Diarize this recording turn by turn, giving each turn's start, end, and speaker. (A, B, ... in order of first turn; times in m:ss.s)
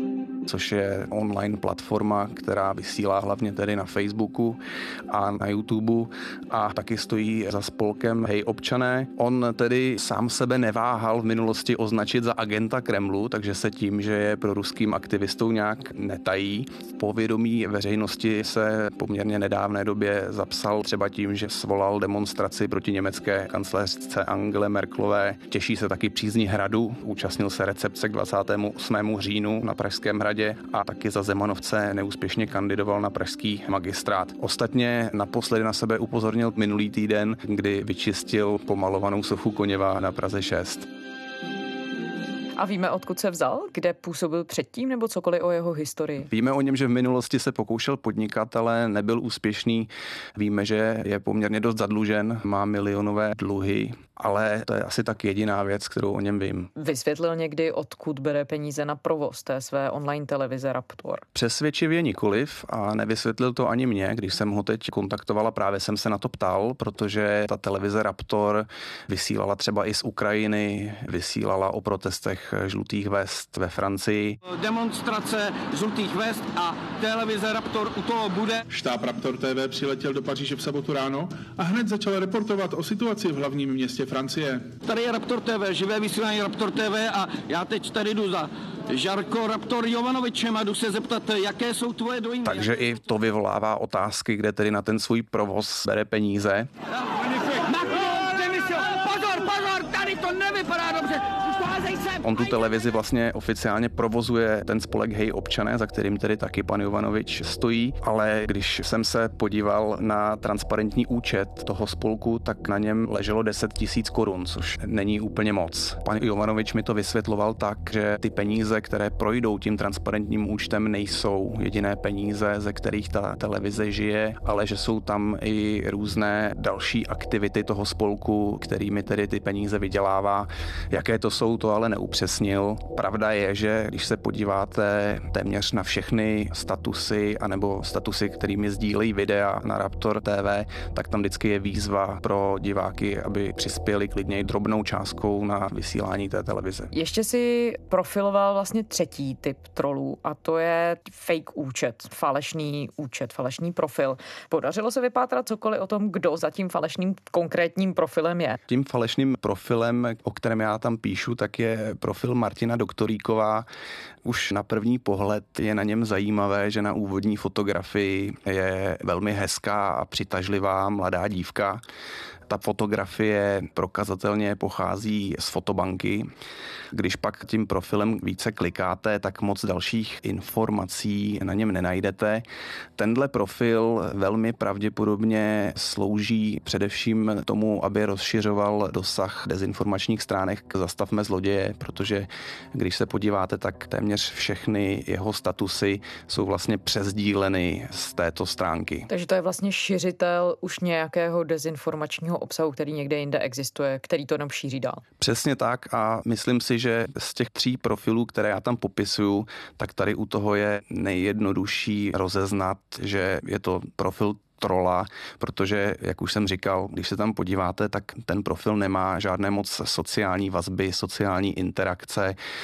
0:00.4-0:40.8 A
0:42.6-0:46.3 B
0:46.3-0:56.7 A
0:56.8-1:01.2 B
1:01.3-1:14.4 A
1:14.4-1:18.6 C
1:18.7-1:24.6 D
1:24.8-1:32.6 C
1:32.4-1:36.7 A
1:37.1-1:42.2 C
1:42.2-2:26.9 A
2:26.9-2:38.6 B
2:38.7-2:43.6 A
2:44.2-2:51.8 A
2:52.5-2:56.3 A
2:56.9-3:02.4 A
3:03.0-3:19.1 A
3:19.1-3:25.0 B
3:25.2-3:42.4 A